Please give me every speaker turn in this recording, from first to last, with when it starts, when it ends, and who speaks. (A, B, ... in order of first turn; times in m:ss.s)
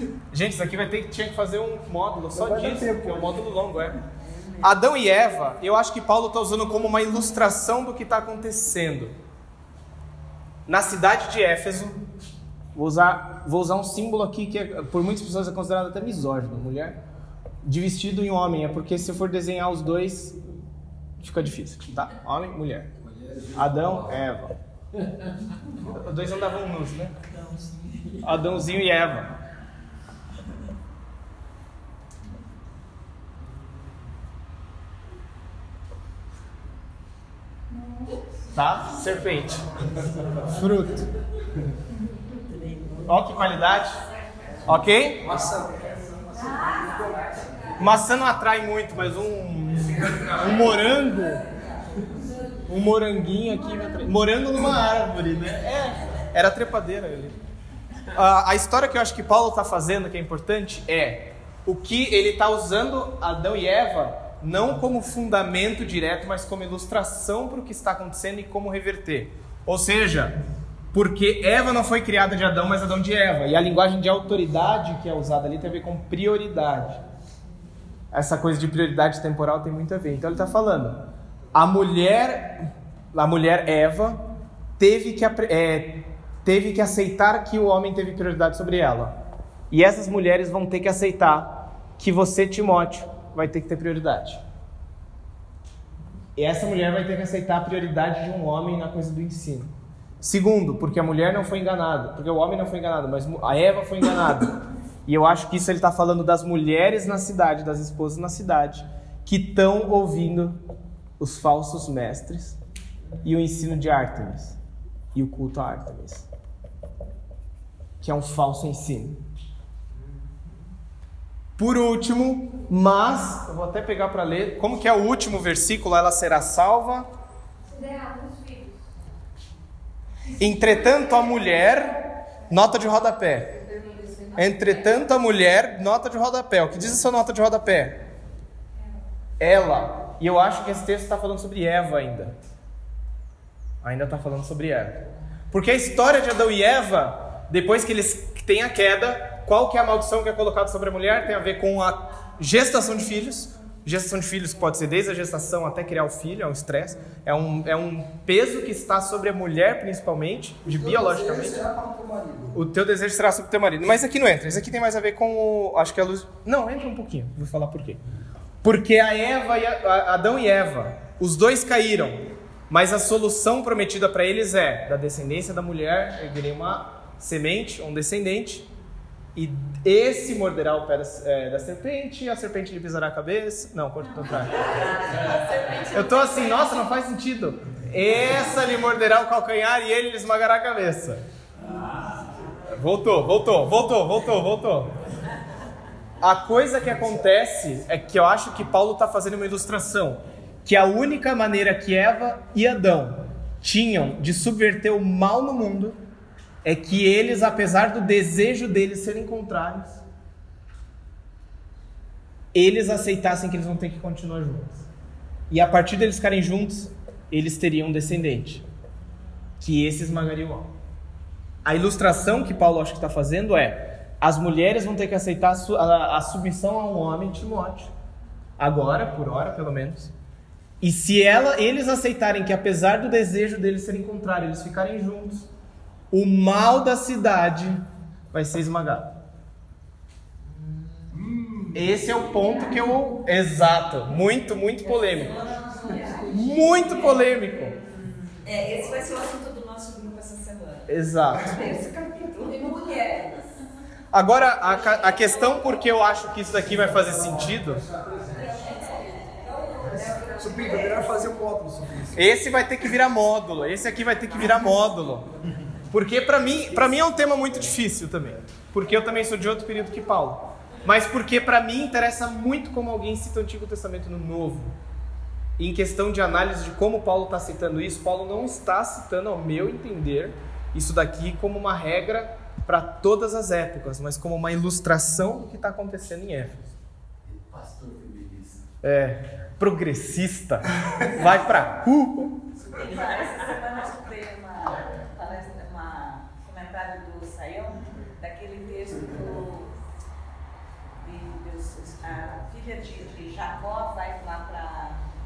0:00.3-0:04.0 A
0:02.4-0:03.3 B
0:04.6-0:09.2 A
0:10.7-0:12.0 A
0:12.7-0:17.0 A
0:17.6-0:20.4 A
0:21.2-0:22.9 A
0:23.0-0:24.1 B
0:23.5-0:24.2 C
0:23.6-0:24.6 A
0:25.9-0:27.2 A
0:28.2-0:29.4 A
0:38.5-0:41.1 A
0:43.0-0:44.0 A
0:44.6-0:45.4 A
0:45.2-0:47.8 B
0:47.8-0:51.4 A
0:52.7-0:57.4 A
0:58.1-1:10.4 A
1:10.9-1:17.0 A
1:18.1-1:21.0 A
1:21.5-1:24.2 A
1:24.8-1:29.2 A
1:29.7-1:34.4 A
1:36.4-1:50.6 A
1:51.2-1:52.6 A
1:53.2-1:54.6 A
1:55.1-1:56.3 A
1:58.0-1:59.2 A
2:01.6-2:07.1 A
2:07.7-2:08.8 D
2:10.3-2:11.1 D
2:10.4-2:13.6 A
2:13.5-2:14.5 D
2:14.4-2:18.0 A
2:19.4-2:22.4 A
2:23.8-2:41.7 A
2:40.6-2:42.6 B
2:42.5-2:48.0 A
2:48.6-2:58.7 A
2:59.4-3:05.0 A
3:04.5-3:06.7 E
3:05.9-3:11.2 A
3:11.7-3:12.2 C
3:12.7-3:15.0 A
3:16.2-3:26.0 A
3:26.6-3:30.0 A
3:32.5-3:34.8 A
3:35.5-3:38.6 A
3:39.6-3:40.7 A
3:41.6-3:47.9 A
3:48.6-3:50.1 A
3:50.8-3:55.5 A
3:56.1-3:59.2 A
4:01.1-4:02.1 B
4:01.7-4:05.5 A
4:04.8-4:13.5 E
4:06.3-4:07.8 A
4:10.9-4:11.6 A
4:12.5-4:13.2 D
4:14.1-4:17.8 A
4:14.9-4:15.8 E
4:17.6-4:18.5 B
4:18.2-4:21.1 E
4:19.8-4:22.3 B
4:22.2-4:25.3 A
4:25.9-4:34.8 A
4:35.6-4:46.7 A
4:47.3-4:48.6 C
4:48.8-4:52.5 A
4:52.7-4:59.7 E
5:01.0-5:05.0 E